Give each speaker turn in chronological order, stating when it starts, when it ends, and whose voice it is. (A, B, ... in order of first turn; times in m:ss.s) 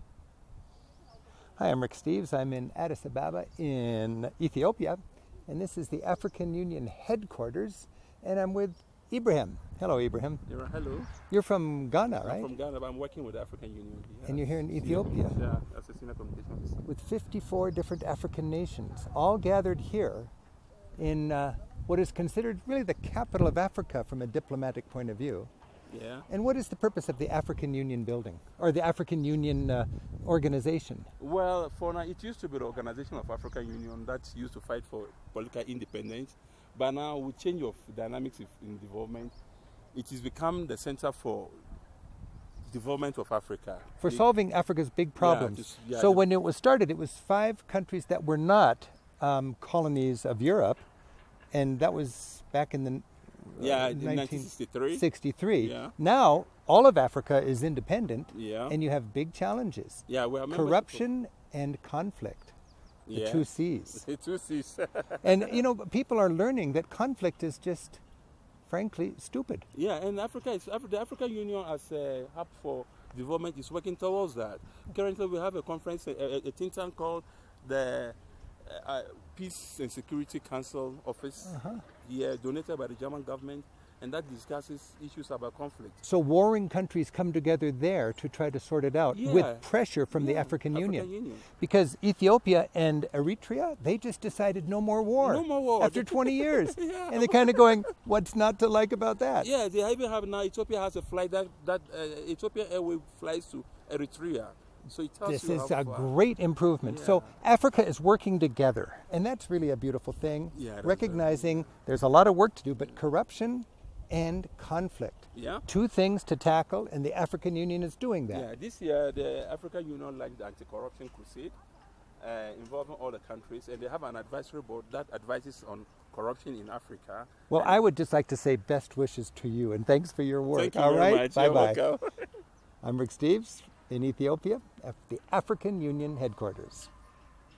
0:01.6-0:10.4 A
0:10.5-0:11.1 B
0:11.3-0:12.5 A
0:12.2-0:16.8 B
0:14.2-0:15.4 A
0:16.8-0:20.3 A
0:21.0-0:25.5 A
0:25.9-0:26.3 B
0:26.3-0:31.1 A
0:31.2-0:39.3 B
0:39.9-0:41.6 B
0:42.6-0:44.2 B
0:44.0-0:50.8 A
0:45.2-0:46.3 B
0:51.5-1:02.5 A
0:53.6-0:55.1 B
0:55.6-0:55.9 B
0:58.3-0:58.8 B
1:00.1-1:01.0 B
1:03.0-1:05.6 B
1:03.1-1:04.0 A
1:05.2-1:08.0 A
1:08.6-1:09.6 A
1:09.7-1:26.0 B
1:21.4-1:21.8 A
1:26.0-1:39.5 A
1:29.1-1:31.5 B
1:35.2-1:37.9 B
1:39.4-1:46.1 B
1:45.2-1:58.5 A
1:46.8-1:47.4 B
1:50.5-1:51.7 B
1:55.3-1:55.6 B
1:58.3-2:01.6 B
2:02.2-2:07.8 B
2:07.5-2:11.8 A
2:10.5-2:12.2 B
2:12.8-2:16.9 A